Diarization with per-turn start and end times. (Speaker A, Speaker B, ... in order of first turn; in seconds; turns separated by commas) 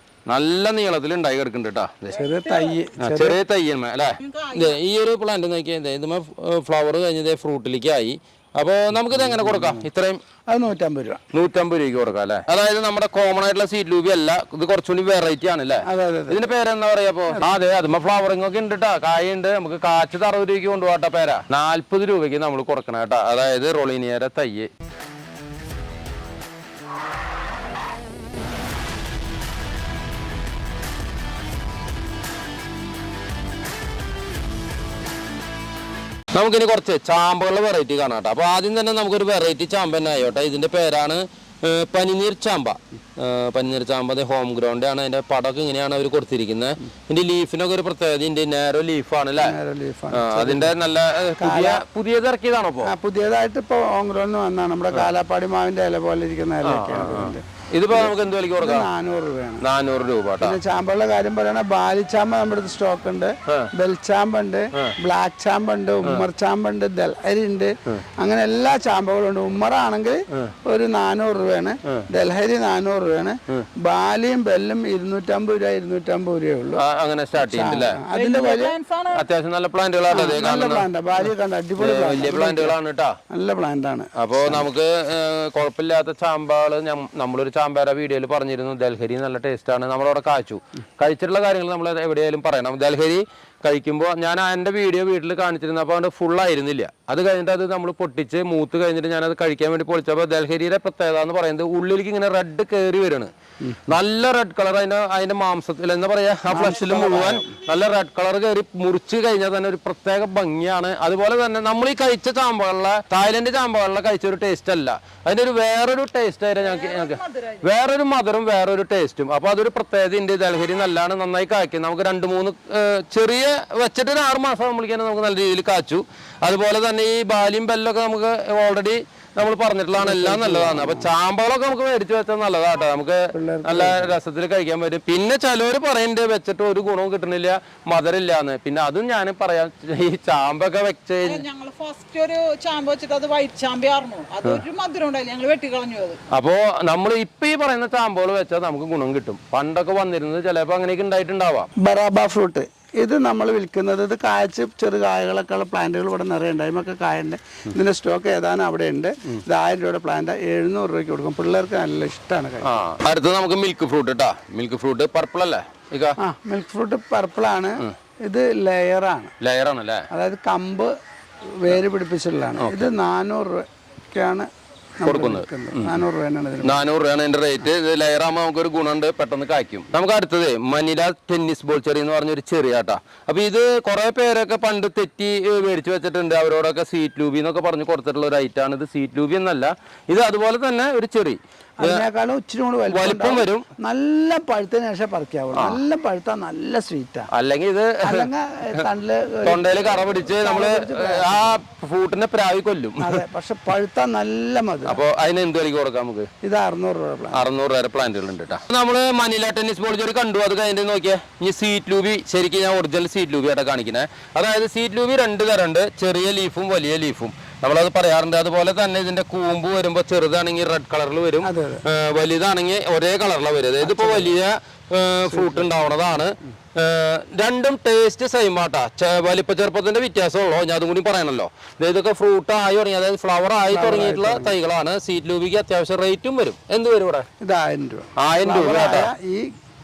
Speaker A: 0.3-2.2, Speaker B: 2.1-3.4, Speaker C: 2.2-2.8, Speaker A: 3.0-10.2, Speaker C: 4.2-4.8, Speaker B: 9.3-9.9, Speaker B: 10.5-11.2, Speaker A: 11.3-24.7, Speaker B: 15.8-16.4, Speaker A: 36.3-49.6, Speaker B: 49.4-50.8, Speaker A: 50.1-52.9, Speaker B: 51.4-51.9, Speaker B: 52.8-59.6, Speaker A: 56.6-58.9, Speaker A: 59.6-60.6, Speaker B: 60.4-76.8, Speaker A: 76.8-78.0, Speaker B: 77.4-78.8, Speaker C: 78.1-79.2, Speaker A: 79.1-80.9, Speaker B: 80.1-82.8, Speaker A: 81.8-83.2, Speaker B: 83.3-84.7, Speaker A: 84.2-103.3, Speaker A: 103.9-141.4, Speaker B: 106.5-107.5, Speaker C: 116.6-117.7, Speaker B: 130.0-131.1, Speaker B: 133.3-134.2, Speaker C: 141.2-146.2, Speaker A: 146.3-151.7, Speaker B: 151.8-162.8, Speaker A: 162.6-166.2, Speaker B: 166.2-169.3, Speaker A: 169.4-170.1, Speaker B: 170.1-170.9, Speaker B: 171.6-174.5, Speaker A: 172.6-172.9, Speaker B: 175.0-176.8, Speaker A: 175.0-176.0, Speaker A: 176.6-192.1, Speaker B: 191.8-197.3, Speaker A: 192.9-193.7, Speaker A: 195.5-195.8, Speaker A: 197.3-198.8, Speaker B: 198.0-201.6, Speaker A: 199.4-203.2, Speaker B: 203.0-205.0, Speaker A: 204.8-206.3, Speaker B: 206.4-207.4, Speaker A: 207.3-237.2, Speaker B: 221.4-221.8, Speaker B: 223.8-224.3, Speaker B: 225.3-225.7, Speaker B: 233.7-234.6, Speaker B: 237.4-239.5, Speaker A: 238.2-239.1